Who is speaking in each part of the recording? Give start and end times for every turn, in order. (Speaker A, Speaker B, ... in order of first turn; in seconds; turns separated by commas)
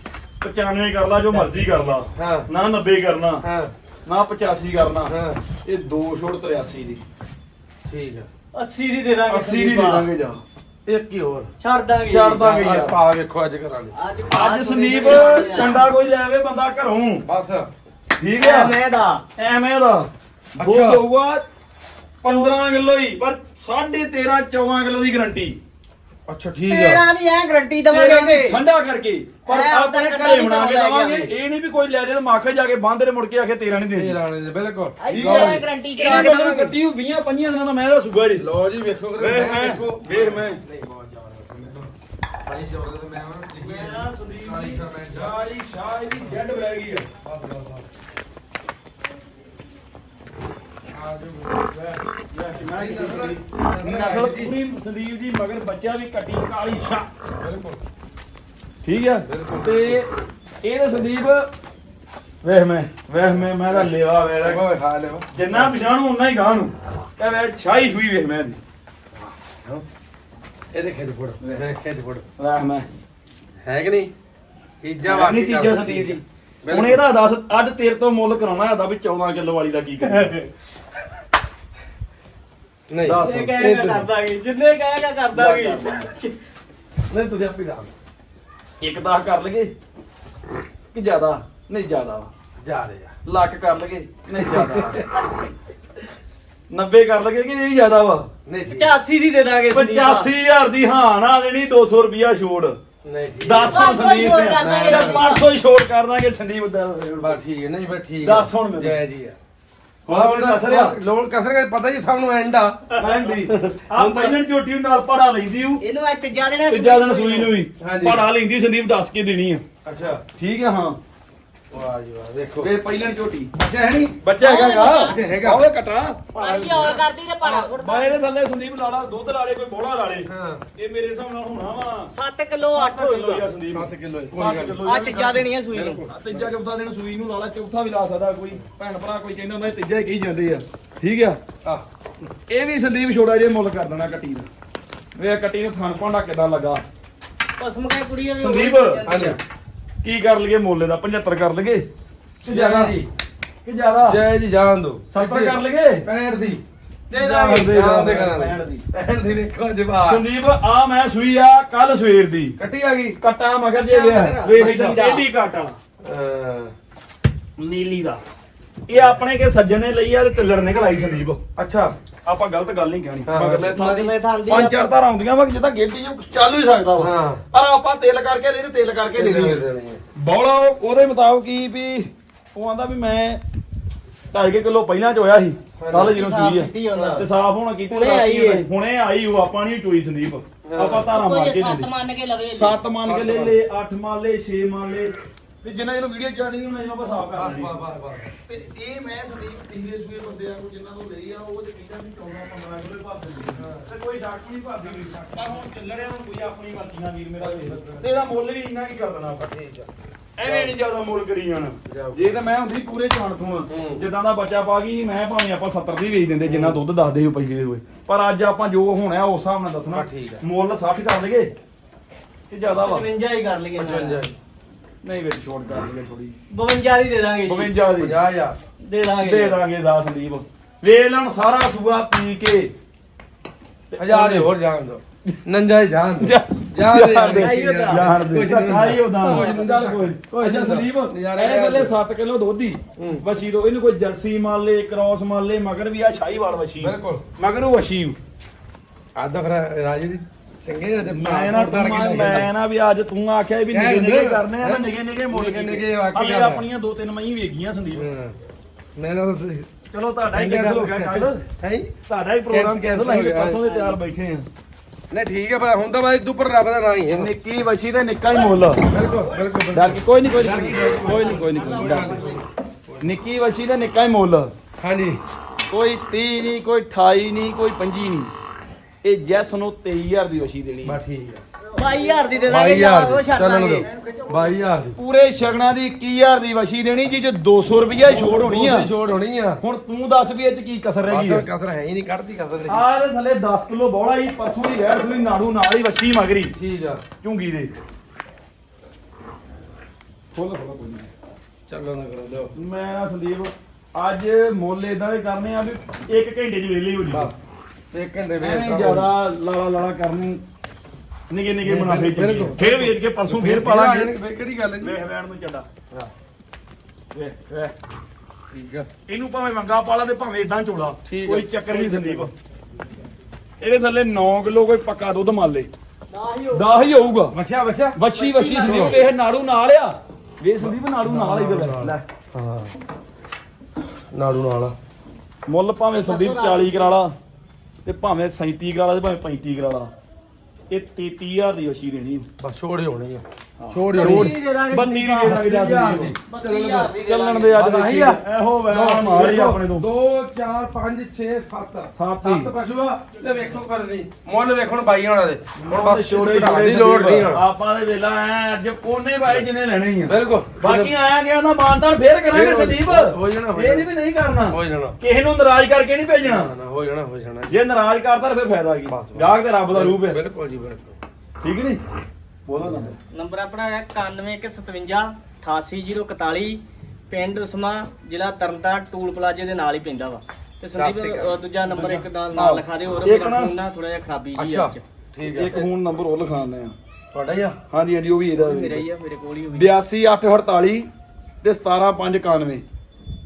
Speaker A: 0.4-3.4, Speaker B: 1.3-2.5, Speaker B: 3.4-3.7, Speaker A: 4.1-7.0, Speaker B: 5.1-5.4, Speaker B: 7.9-8.3, Speaker C: 8.5-10.1, Speaker A: 9.3-10.4, Speaker B: 10.9-11.5, Speaker C: 11.6-12.5, Speaker A: 12.1-13.0, Speaker B: 12.4-13.9, Speaker C: 13.9-15.9, Speaker A: 14.3-17.2, Speaker B: 17.2-17.7, Speaker A: 18.2-18.8, Speaker C: 18.4-19.3, Speaker A: 19.4-21.4, Speaker B: 20.6-21.0, Speaker A: 22.2-25.6, Speaker C: 22.2-22.6, Speaker B: 26.3-27.0, Speaker C: 26.6-28.6, Speaker A: 27.9-34.2, Speaker C: 29.5-31.3, Speaker B: 33.9-36.2, Speaker C: 35.0-36.8, Speaker A: 35.1-38.5, Speaker B: 38.4-41.9, Speaker A: 39.2-40.6, Speaker B: 42.5-45.4, Speaker A: 43.6-47.1, Speaker B: 47.2-47.9, Speaker B: 50.9-52.0, Speaker A: 52.3-57.1, Speaker B: 52.7-54.5, Speaker B: 57.4-57.8, Speaker A: 58.8-61.5, Speaker B: 59.2-60.0, Speaker A: 62.4-64.6, Speaker B: 63.5-65.7, Speaker A: 65.3-68.6, Speaker B: 69.2-69.8, Speaker B: 70.7-72.2, Speaker A: 72.4-72.9, Speaker B: 73.6-74.1, Speaker B: 74.8-77.0, Speaker A: 75.0-80.3, Speaker C: 80.1-80.5, Speaker B: 82.9-84.1, Speaker A: 83.0-83.6, Speaker C: 83.1-86.3, Speaker A: 85.3-86.1, Speaker B: 87.1-87.9, Speaker A: 88.8-89.7, Speaker A: 90.9-92.3, Speaker B: 92.6-93.1, Speaker A: 93.2-95.0, Speaker B: 94.4-95.0, Speaker A: 96.7-98.3, Speaker B: 98.5-98.9, Speaker C: 98.7-100.3, Speaker A: 99.7-102.8, Speaker B: 103.0-103.9, Speaker A: 103.4-107.4, Speaker C: 103.7-105.4, Speaker B: 104.6-105.2, Speaker B: 107.2-109.4, Speaker A: 108.2-109.0, Speaker A: 110.1-111.0, Speaker B: 110.1-112.8, Speaker A: 112.9-115.8, Speaker B: 113.4-114.4, Speaker C: 115.8-117.5, Speaker A: 116.7-119.6, Speaker B: 117.8-118.3, Speaker B: 119.8-120.2, Speaker A: 120.4-121.0, Speaker B: 121.7-122.7, Speaker A: 122.6-123.5, Speaker B: 123.6-124.2, Speaker A: 124.2-126.3, Speaker C: 124.4-125.2, Speaker B: 124.9-125.6, Speaker B: 126.3-127.1, Speaker C: 126.3-128.2, Speaker A: 127.4-132.1, Speaker B: 130.3-130.6, Speaker C: 132.1-133.5, Speaker A: 132.7-135.5, Speaker B: 133.7-134.8, Speaker C: 134.8-136.1, Speaker B: 135.7-136.5, Speaker A: 136.0-141.4, Speaker A: 142.5-144.5, Speaker A: 145.2-146.8, Speaker C: 147.6-149.4, Speaker A: 148.4-149.1, Speaker B: 149.1-149.4, Speaker A: 150.0-151.8, Speaker A: 152.4-153.0, Speaker B: 152.5-153.1, Speaker A: 153.7-154.2, Speaker B: 154.1-156.6, Speaker A: 155.1-156.1, Speaker C: 157.1-157.8, Speaker A: 157.1-158.8, Speaker B: 157.7-160.3, Speaker A: 160.0-162.6, Speaker B: 162.6-163.2, Speaker A: 163.2-165.8, Speaker C: 163.7-165.2, Speaker B: 166.0-166.7, Speaker A: 167.6-168.2, Speaker A: 168.9-171.4, Speaker B: 171.6-171.9, Speaker A: 172.2-179.6, Speaker B: 173.2-174.1, Speaker C: 173.8-174.9, Speaker B: 177.0-177.4, Speaker B: 179.1-180.0, Speaker A: 180.2-183.4, Speaker A: 184.3-191.9, Speaker B: 185.8-186.1, Speaker C: 185.9-187.3, Speaker B: 186.9-187.2, Speaker C: 187.9-188.7, Speaker B: 190.6-191.1, Speaker C: 191.1-192.8, Speaker A: 192.6-197.8, Speaker B: 193.0-193.6, Speaker B: 197.3-198.6, Speaker A: 198.5-209.5, Speaker B: 203.6-203.9, Speaker B: 207.4-208.2, Speaker B: 209.3-209.9, Speaker A: 210.4-221.5, Speaker B: 210.4-210.7, Speaker B: 211.9-212.4, Speaker B: 213.7-214.0, Speaker B: 216.4-216.8, Speaker B: 219.9-220.4, Speaker A: 222.5-223.1, Speaker C: 222.7-224.3, Speaker B: 223.8-224.3, Speaker A: 225.0-226.4, Speaker C: 226.5-227.7, Speaker A: 227.5-228.2, Speaker B: 228.0-228.6, Speaker C: 228.8-229.6, Speaker A: 229.2-232.7, Speaker A: 233.9-234.5, Speaker B: 234.0-241.9, Speaker A: 236.2-248.2, Speaker C: 237.2-238.1, Speaker C: 239.3-239.7, Speaker B: 243.0-243.2, Speaker B: 246.8-247.2, Speaker B: 249.2-252.5, Speaker A: 251.1-258.1, Speaker B: 253.7-256.6, Speaker B: 257.9-258.4, Speaker B: 259.0-259.7, Speaker A: 259.9-261.5, Speaker B: 260.3-261.9, Speaker A: 262.1-264.5, Speaker B: 262.5-263.6, Speaker C: 263.6-264.0, Speaker B: 265.1-267.3, Speaker A: 267.1-268.9, Speaker B: 268.9-273.1, Speaker A: 269.7-272.2, Speaker C: 270.5-272.4, Speaker A: 273.0-274.5, Speaker B: 274.8-275.2, Speaker A: 275.7-278.3, Speaker A: 279.0-281.0, Speaker B: 280.8-281.4, Speaker C: 281.7-284.3, Speaker B: 282.5-285.0, Speaker A: 285.0-288.9, Speaker B: 288.0-289.6, Speaker A: 289.6-291.5, Speaker B: 291.1-292.8, Speaker A: 292.6-296.5, Speaker B: 296.5-297.0, Speaker A: 297.2-297.7, Speaker A: 300.3-301.1, Speaker B: 301.7-302.5, Speaker A: 302.6-307.3, Speaker B: 307.1-307.4, Speaker B: 307.9-309.1, Speaker A: 308.4-310.4, Speaker A: 311.3-314.2, Speaker B: 311.6-315.0, Speaker A: 314.8-315.7, Speaker A: 317.1-317.7, Speaker B: 318.5-318.9, Speaker A: 319.1-322.3, Speaker B: 321.1-322.3, Speaker A: 323.6-325.7, Speaker C: 326.1-326.8, Speaker A: 326.5-327.4, Speaker B: 327.3-328.0, Speaker A: 327.9-332.1, Speaker C: 328.1-329.0, Speaker B: 328.6-329.0, Speaker B: 330.6-332.7, Speaker B: 334.1-334.8, Speaker A: 335.5-337.1, Speaker C: 335.9-337.0, Speaker A: 337.9-339.9, Speaker A: 340.7-342.3, Speaker B: 342.4-344.4, Speaker A: 343.6-346.2, Speaker C: 343.9-345.4, Speaker B: 345.2-346.9, Speaker C: 346.3-347.6, Speaker A: 347.0-349.9, Speaker B: 347.5-357.4, Speaker A: 352.0-352.5, Speaker A: 355.6-366.5, Speaker B: 360.1-360.9, Speaker B: 362.3-363.9, Speaker B: 364.5-365.0, Speaker B: 366.2-367.5, Speaker A: 367.5-370.2, Speaker B: 368.9-371.0, Speaker A: 371.4-371.8, Speaker A: 372.5-372.9, Speaker B: 372.6-372.9, Speaker C: 373.1-384.8, Speaker B: 380.7-381.4, Speaker A: 381.6-383.6, Speaker B: 384.4-385.7, Speaker A: 385.2-386.7, Speaker B: 387.1-387.6, Speaker A: 387.7-388.9, Speaker C: 388.3-389.8, Speaker A: 389.5-390.9, Speaker A: 391.4-392.6